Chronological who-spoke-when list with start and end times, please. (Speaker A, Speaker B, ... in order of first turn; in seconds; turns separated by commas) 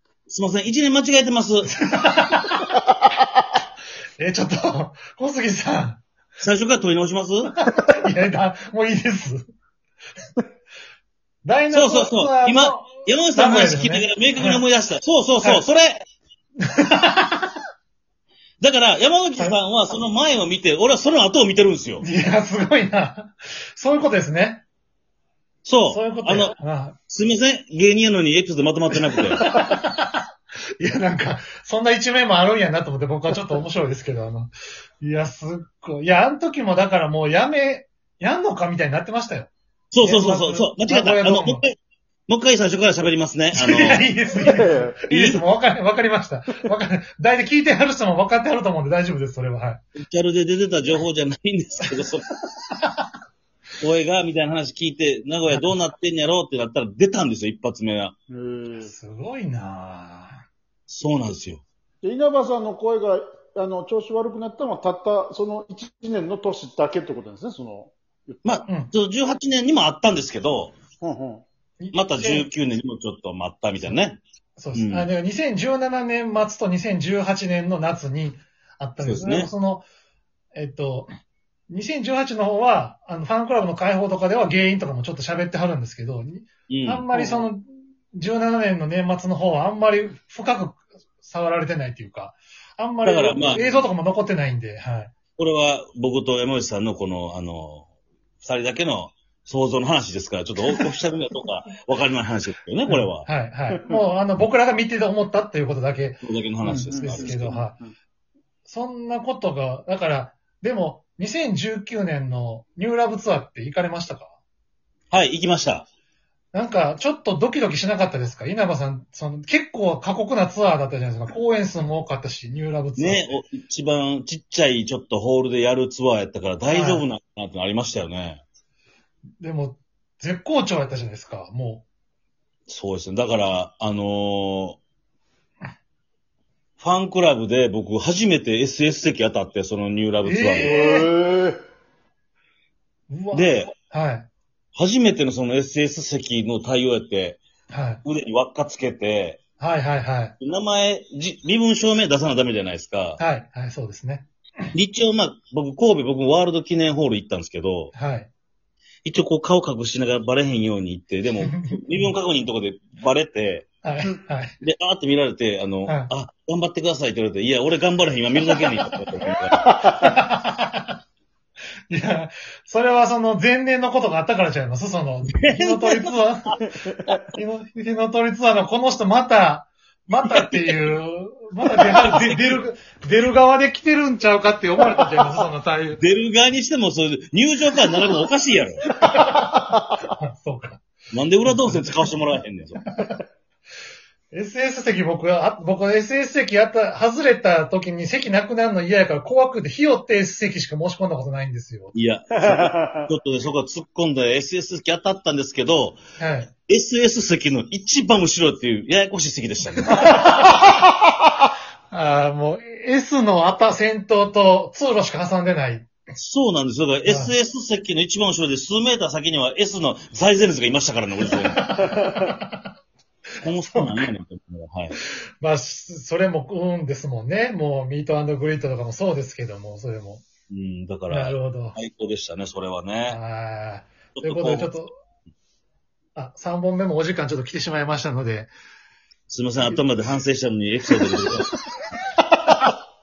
Speaker A: 0.3-1.7, Speaker B: 1.7-2.7, Speaker B: 4.2-6.0, Speaker A: 6.4-7.5, Speaker B: 7.6-9.5, Speaker B: 11.4-14.6, Speaker A: 11.7-16.0, Speaker B: 16.6-17.6, Speaker A: 18.6-22.1, Speaker B: 22.0-24.6, Speaker A: 25.6-26.6, Speaker B: 25.9-27.0, Speaker A: 27.1-29.5, Speaker B: 29.4-30.2, Speaker B: 30.8-39.5, Speaker A: 39.9-41.8, Speaker B: 40.0-41.6, Speaker A: 42.3-44.1, Speaker B: 43.6-49.8, Speaker C: 44.4-45.0, Speaker A: 45.1-45.4, Speaker A: 50.0-52.3, Speaker A: 53.8-58.1, Speaker B: 55.5-55.8, Speaker C: 58.3-58.9, Speaker B: 58.8-60.4, Speaker A: 60.9-61.6, Speaker C: 62.0-68.4, Speaker A: 68.4-70.8, Speaker C: 71.0-71.4, Speaker B: 71.8-72.5, Speaker A: 71.9-74.2, Speaker B: 74.6-79.9, Speaker A: 74.8-75.1, Speaker A: 79.0-79.5, Speaker B: 80.5-81.1, Speaker B: 81.7-95.1, Speaker A: 86.7-87.5, Speaker A: 93.0-93.8, Speaker A: 95.4-97.9, Speaker A: 98.4-103.3, Speaker B: 102.9-106.2, Speaker A: 106.2-107.6, Speaker C: 106.6-107.9, Speaker B: 107.0-107.8, Speaker B: 108.7-114.3, Speaker A: 115.1-115.9, Speaker B: 116.5-123.4, Speaker A: 123.0-128.4, Speaker B: 126.7-127.0, Speaker B: 129.4-131.9, Speaker A: 132.7-134.8, Speaker A: 136.8-140.7, Speaker B: 140.2-141.1, Speaker C: 140.6-141.6, Speaker B: 143.1-144.3, Speaker A: 143.3-143.7, Speaker A: 144.8-147.4, Speaker B: 147.7-148.0, Speaker A: 148.0-149.4, Speaker B: 149.6-150.3, Speaker A: 150.4-153.2, Speaker B: 153.2-154.3, Speaker A: 154.7-157.9, Speaker B: 157.9-158.3, Speaker A: 159.1-163.7, Speaker B: 161.4-162.1, Speaker B: 163.8-164.6, Speaker A: 164.6-169.9, Speaker C: 169.7-170.1, Speaker B: 169.8-171.0, Speaker B: 171.9-176.6, Speaker A: 175.4-177.2, Speaker B: 177.3-186.0, Speaker A: 180.2-180.8, Speaker A: 181.7-182.6, Speaker A: 186.0-189.0, Speaker B: 188.9-190.8, Speaker A: 191.1-192.8, Speaker B: 191.5-192.0, Speaker B: 192.9-193.2, Speaker B: 194.3-201.9, Speaker A: 201.9-206.0, Speaker C: 202.5-203.1, Speaker B: 206.2-206.5, Speaker A: 206.7-210.4, Speaker B: 209.9-210.8, Speaker B: 211.9-215.9, Speaker A: 216.2-221.9, Speaker B: 217.1-217.3, Speaker B: 221.3-222.7, Speaker A: 223.4-225.0, Speaker B: 223.7-224.0, Speaker B: 225.4-230.2, Speaker A: 230.5-233.2, Speaker B: 231.1-231.8, Speaker B: 233.1-234.9, Speaker A: 234.2-234.7, Speaker B: 236.2-238.5, Speaker A: 239.3-241.5